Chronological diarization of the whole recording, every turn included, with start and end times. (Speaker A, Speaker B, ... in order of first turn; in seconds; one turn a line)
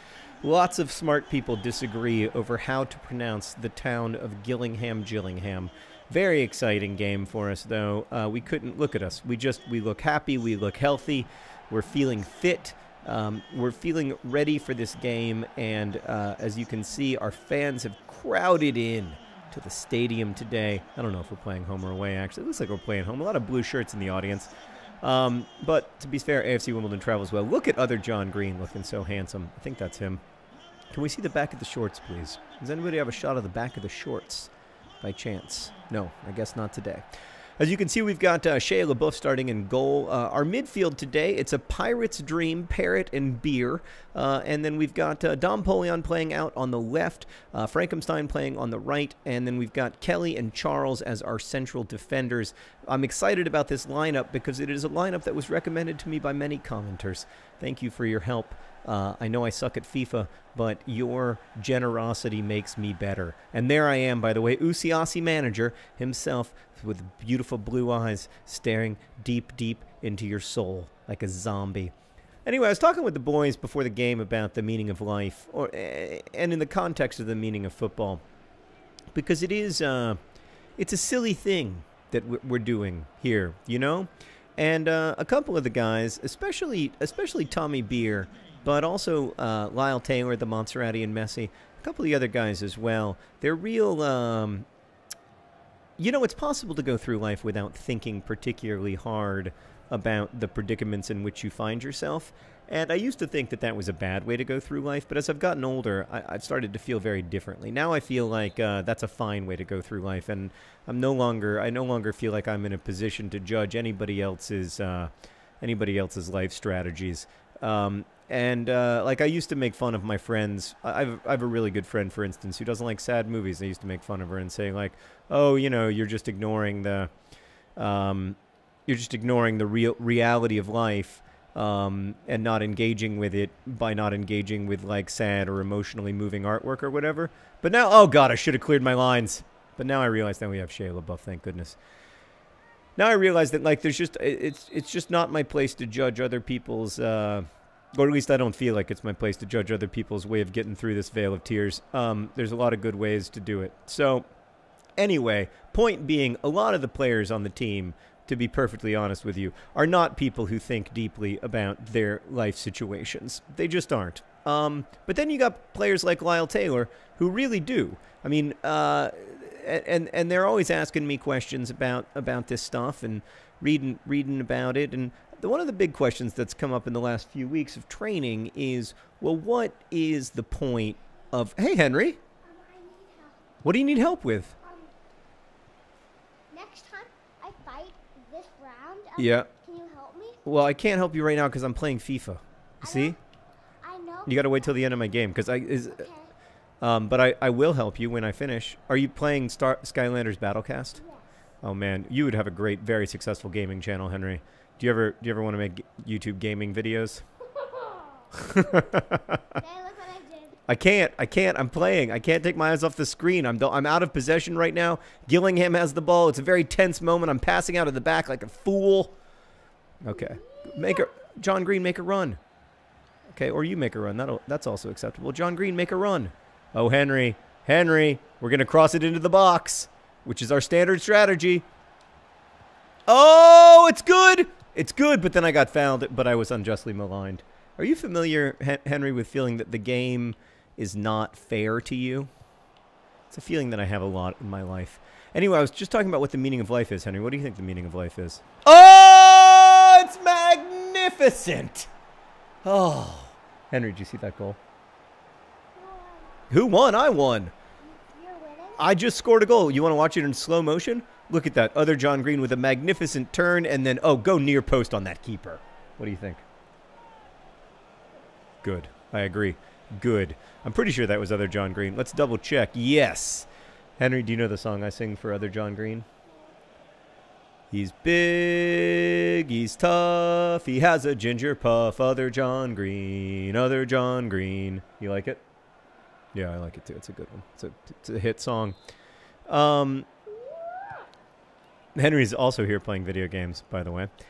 Speaker A: 0.4-30.2
Speaker A: 30.9-34.5
Speaker A: 35.0-37.1
Speaker A: 37.6-71.9
Speaker A: 72.5-78.2
Speaker A: 79.1-80.2
Speaker A: 80.8-94.7
Speaker A: 96.0-127.1
Speaker A: 127.8-141.8
Speaker A: 143.0-154.2
Speaker A: 155.0-182.2
Speaker B: 182.4-183.5
Speaker A: 183.6-184.6
Speaker B: 184.6-184.9
Speaker B: 186.5-190.4
Speaker A: 189.2-189.5
Speaker A: 190.4-193.2
Speaker B: 192.8-193.2
Speaker B: 193.8-196.3
Speaker A: 194.3-196.1
Speaker A: 196.8-201.0
Speaker B: 201.0-201.2
Speaker A: 201.6-207.2
Speaker B: 207.6-208.9
Speaker A: 208.3-209.6
Speaker B: 209.6-210.6
Speaker A: 210.7-219.1
Speaker A: 220.0-222.4
Speaker B: 220.5-221.0
Speaker A: 223.3-231.7
Speaker A: 233.1-242.3
Speaker A: 243.3-251.9
Speaker A: 252.6-254.6
Speaker B: 255.8-256.4
Speaker A: 256.5-257.5
Speaker B: 257.9-258.9
Speaker A: 258.8-266.4
Speaker A: 268.6-273.5
Speaker A: 274.0-276.1
Speaker A: 277.7-285.4
Speaker A: 286.3-288.8
Speaker A: 289.5-290.1
Speaker A: 291.9-294.1